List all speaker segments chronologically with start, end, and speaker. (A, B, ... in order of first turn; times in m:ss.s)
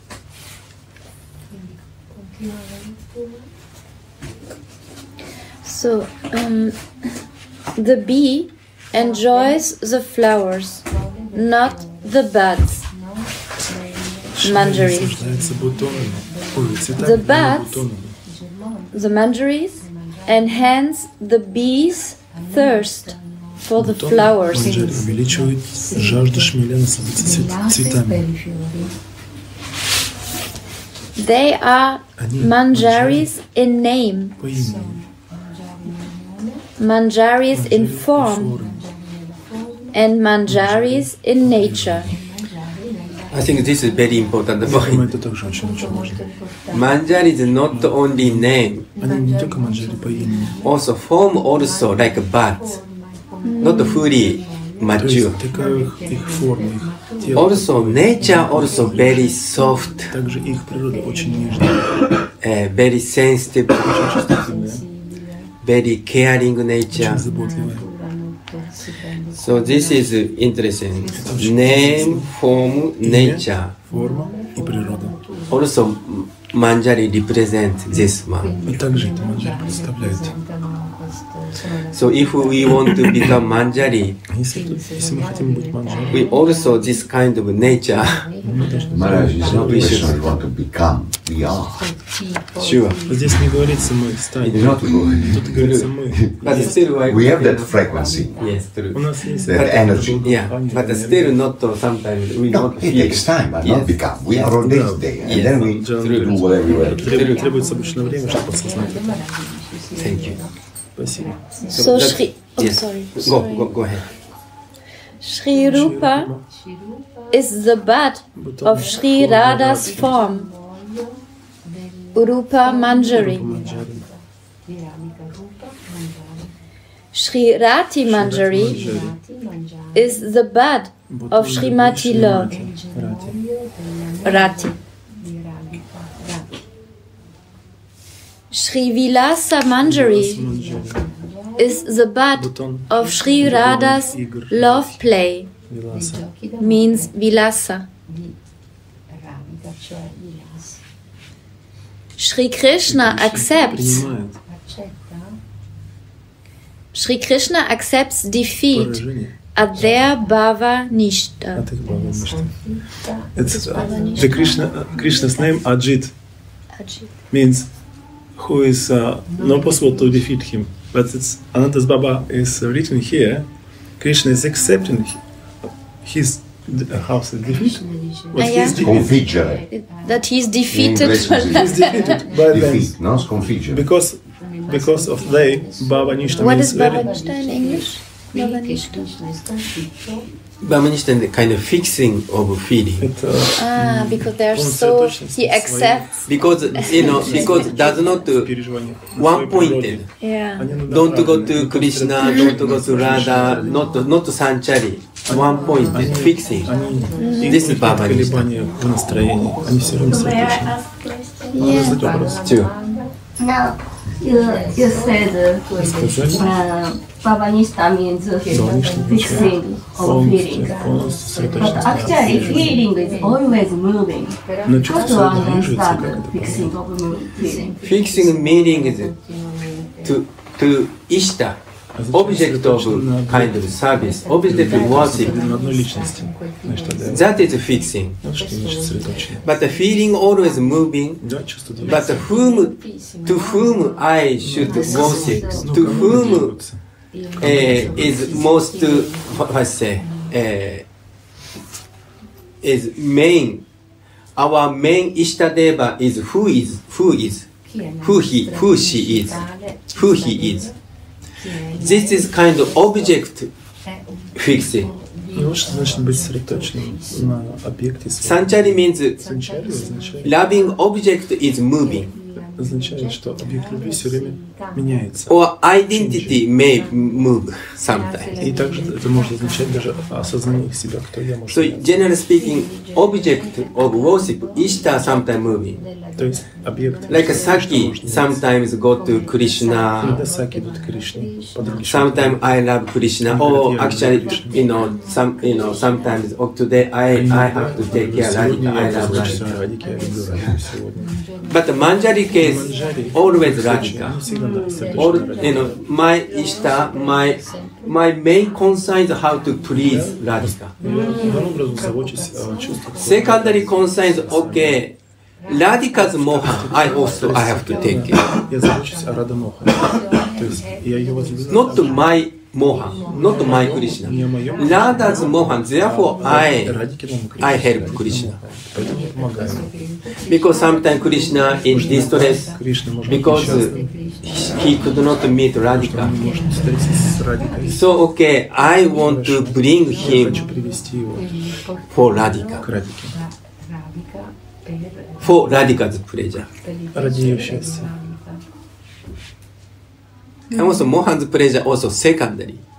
0:05.6-0:06.8 A
0:07.8-0:12.8 A
0:14.3-0:18.2 B
0:14.4-0:15.1 A
0:17.0-0:17.8 A
0:18.9-0:24.7 A
0:23.8-0:28.3 B
0:31.2-0:34.4 A
0:32.2-0:33.3 B
0:34.4-0:35.0 B
0:36.8-0:38.5 A
0:37.5-0:38.9 B
0:39.9-0:42.1 A
0:40.5-0:42.2 B
0:43.3-0:45.0 C
0:44.6-0:46.2 B
0:46.7-0:48.8 C
0:47.7-0:50.6 B
0:50.6-0:52.8 C
0:53.4-0:54.1 A
0:53.6-0:55.4 C
0:55.0-0:59.3 B
0:57.3-1:00.1 C
1:00.1-1:01.9 B
1:02.4-1:04.1 C
1:03.8-1:04.8 B
1:05.6-1:07.2 C
1:06.9-1:07.9 B
1:09.4-1:13.7 C
1:11.1-1:12.3 B
1:13.0-1:15.2 B
1:15.5-1:18.5 C
1:18.6-1:20.4 B
1:21.9-1:24.2 C
1:24.3-1:26.3 B
1:26.1-1:28.2 C
1:28.4-1:30.4 B
1:28.8-1:31.9 D
1:29.5-1:30.2 C
1:32.6-1:33.0 C
1:33.1-1:36.9 B
1:34.4-1:35.9 C
1:34.5-1:35.6 D
1:36.2-1:36.4 D
1:36.4-1:39.0 C
1:37.0-1:38.4 D
1:38.9-1:41.4 B
1:39.4-1:40.3 D
1:39.5-1:44.5 C
1:42.5-1:47.3 D
1:44.3-1:49.2 B
1:45.2-1:47.4 C
1:49.9-1:50.4 C
1:51.0-1:52.1 B
1:51.7-1:53.7 A
1:51.7-1:54.1 C
1:55.2-1:56.3 A
1:55.6-1:56.4 B
1:57.3-2:00.5 A
1:58.3-2:00.1 B
2:02.1-2:03.5 A
2:03.0-2:04.1 B
2:07.1-2:08.9 A
2:08.0-2:09.2 B
2:09.9-2:12.5 A
2:11.1-2:13.4 B
2:14.2-2:14.7 A
2:18.5-2:20.4 A
2:19.8-2:21.1 B
2:21.6-2:25.5 A
2:22.3-2:25.0 B
2:25.7-2:26.2 B
2:26.6-2:27.9 A
2:32.2-2:34.0 A
2:32.8-2:34.4 B
2:36.9-2:39.0 A
2:38.7-2:39.9 B
2:39.5-2:41.6 A
2:41.5-2:42.6 B
2:43.3-2:46.1 B
2:43.6-2:44.6 A
2:46.8-2:47.1 A
2:47.3-2:47.7 B
2:48.4-2:53.5 B
2:54.0-2:55.2 B
2:56.0-2:59.2 B
2:58.4-2:58.8 A
2:58.7-2:59.7 D
2:59.7-3:02.2 A
3:00.7-3:03.8 D
3:01.5-3:07.2 B
3:06.4-3:09.1 A
3:10.6-3:13.0 C
3:13.0-3:24.1 B
3:13.6-3:16.1 A
3:16.3-3:18.5 C
3:16.7-3:17.7 A
3:19.2-3:20.0 C
3:20.2-3:20.7 A
3:20.9-3:26.7 C
3:25.3-3:30.7 B
3:27.2-3:27.6 A
3:27.4-3:28.5 C
3:30.0-3:31.8 E
3:31.5-3:32.0 A
3:31.6-3:32.7 B
3:32.4-3:32.7 C
3:33.4-3:40.8 E
3:35.8-3:36.5 B
3:38.5-3:42.8 B
3:41.5-3:47.8 E
3:44.6-3:46.7 B
3:47.8-3:49.1 C
3:50.0-3:51.6 C
3:52.0-3:53.8 B
3:52.1-3:55.4 C
3:54.5-3:57.4 B
3:57.1-3:58.2 C
3:58.2-3:59.5 B
3:59.4-4:01.2 C
4:01.2-4:02.2 B
4:01.8-4:06.5 C
4:04.4-4:06.8 B
4:07.3-4:08.7 B
4:07.4-4:10.8 C
4:12.6-4:13.6 C
4:14.4-4:17.5 C
4:18.0-4:20.7 C
4:21.7-4:23.5 C
4:24.4-4:24.9 C
4:25.3-4:30.4 B
4:28.2-4:29.2 C
4:30.2-4:32.1 C
4:32.6-4:35.3 B
4:35.3-4:38.4 C
4:35.9-4:36.4 B
4:38.4-4:42.0 B
4:41.5-4:45.8 C
4:46.2-4:48.4 B
4:47.1-4:50.2 C
4:50.0-4:52.4 B
4:51.8-4:59.4 C
4:53.2-4:54.6 B
4:57.1-5:01.1 B
5:01.4-5:04.2 C
5:02.4-5:05.8 B
5:04.3-5:04.9 E
5:04.9-5:10.8 C
5:09.7-5:14.8 B
5:10.8-5:11.6 E
5:13.0-5:14.9 C
5:15.5-5:18.4 C
5:16.3-5:22.0 B
5:21.5-5:26.8 C
5:23.0-5:29.7 B
5:27.4-5:28.4 C
5:30.3-5:36.1 C
5:31.6-5:34.0 B
5:35.7-5:37.8 B
5:37.7-5:40.4 C
5:39.0-5:41.3 B
5:41.9-5:42.6 C
5:42.6-5:43.2 B
5:45.2-5:46.5 C
5:46.9-5:48.1 B
5:50.5-5:52.6 C